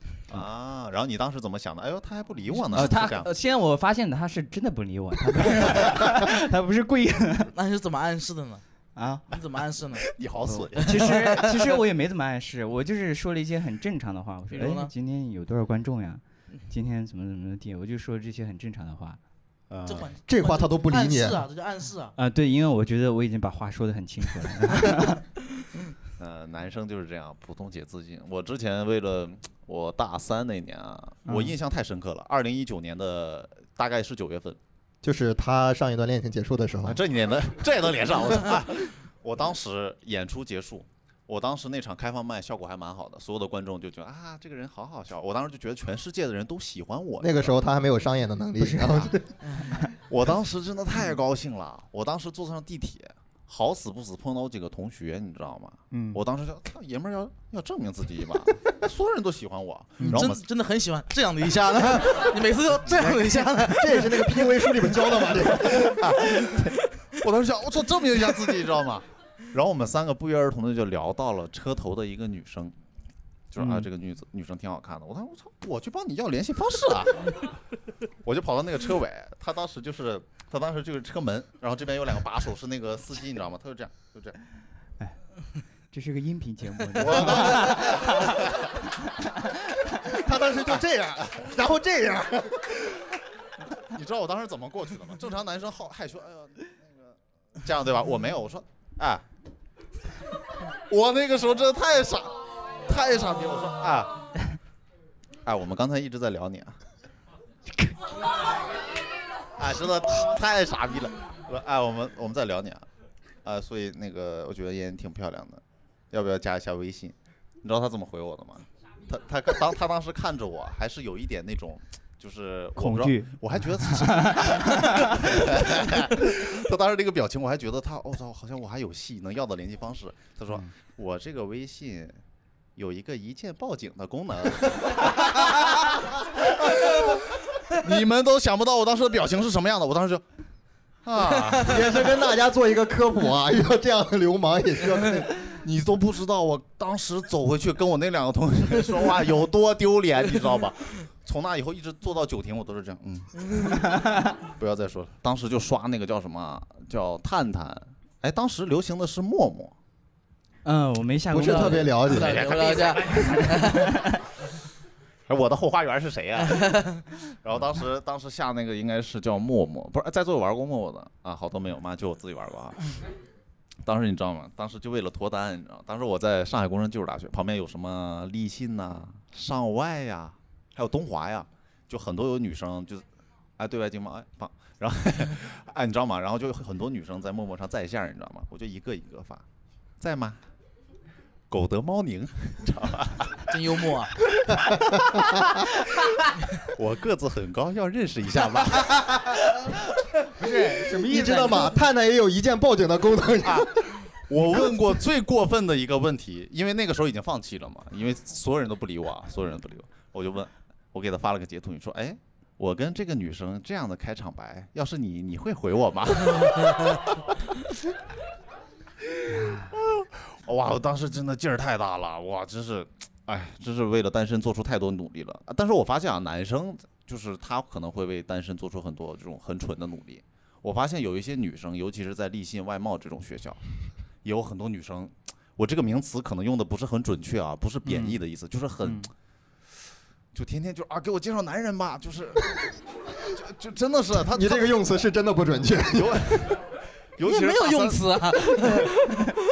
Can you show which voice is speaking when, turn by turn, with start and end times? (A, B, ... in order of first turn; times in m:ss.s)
0:00.3-0:03.3 A
0:02.7-0:07.5 B
0:07.5-0:08.6 C
0:09.0-0:09.3 B
0:09.3-0:10.1 C
0:10.1-0:11.1 A
0:10.4-0:19.2 B
0:10.8-0:11.8 C
0:14.5-0:14.9 C
0:19.7-0:20.1 B
0:19.8-0:22.1 C
0:20.3-0:21.4 D
0:22.2-0:25.2 B
0:26.2-0:34.6 A
0:31.2-0:31.5 B
0:35.0-0:37.0 D
0:36.8-0:47.6 A
0:47.2-0:49.2 D
0:48.6-0:49.1 B
0:49.9-1:00.4 A
0:55.9-0:56.2 B
1:00.0-1:00.2 B
1:00.1-1:04.5 C
1:03.6-1:06.0 D
1:05.7-1:06.6 A
1:07.2-1:12.7 A
1:13.5-1:17.6 A
1:13.6-1:13.8 B
1:18.2-1:24.4 A
1:25.9-1:28.4 B
1:27.0-1:28.7 A
1:29.0-1:30.1 B
1:30.0-1:32.9 D
1:33.8-1:39.2 A
1:40.9-1:44.3 A
1:45.4-1:46.8 A
1:49.6-1:52.8 A
1:53.4-2:12.2 A
2:02.8-2:05.4 B
2:12.8-2:20.2 A
2:21.0-2:22.0 A
2:21.6-2:25.3 D
2:25.4-2:33.8 A
2:33.8-2:34.3 B
2:34.5-2:39.7 A
2:40.6-2:42.1 B
2:41.3-2:42.4 D
2:42.1-2:43.9 C
2:42.1-2:43.4 A
2:43.0-2:44.2 B
2:45.3-2:53.0 A
2:46.5-2:47.0 C
2:53.8-3:03.0 A
3:03.6-3:09.4 A
3:10.0-3:10.4 A
3:11.5-3:13.4 A
3:13.5-3:14.1 C
3:14.5-3:14.8 A
3:16.6-3:19.4 A
3:20.4-3:21.8 B
3:20.8-3:24.8 D
3:23.4-3:37.3 A
3:39.3-3:39.7 B
3:39.5-3:53.6 A
3:54.2-3:59.1 A
3:57.8-3:58.2 B
3:58.8-3:59.1 B
4:00.3-4:04.8 A
4:04.2-4:06.5 D
4:05.9-4:08.9 A
4:07.2-4:09.3 C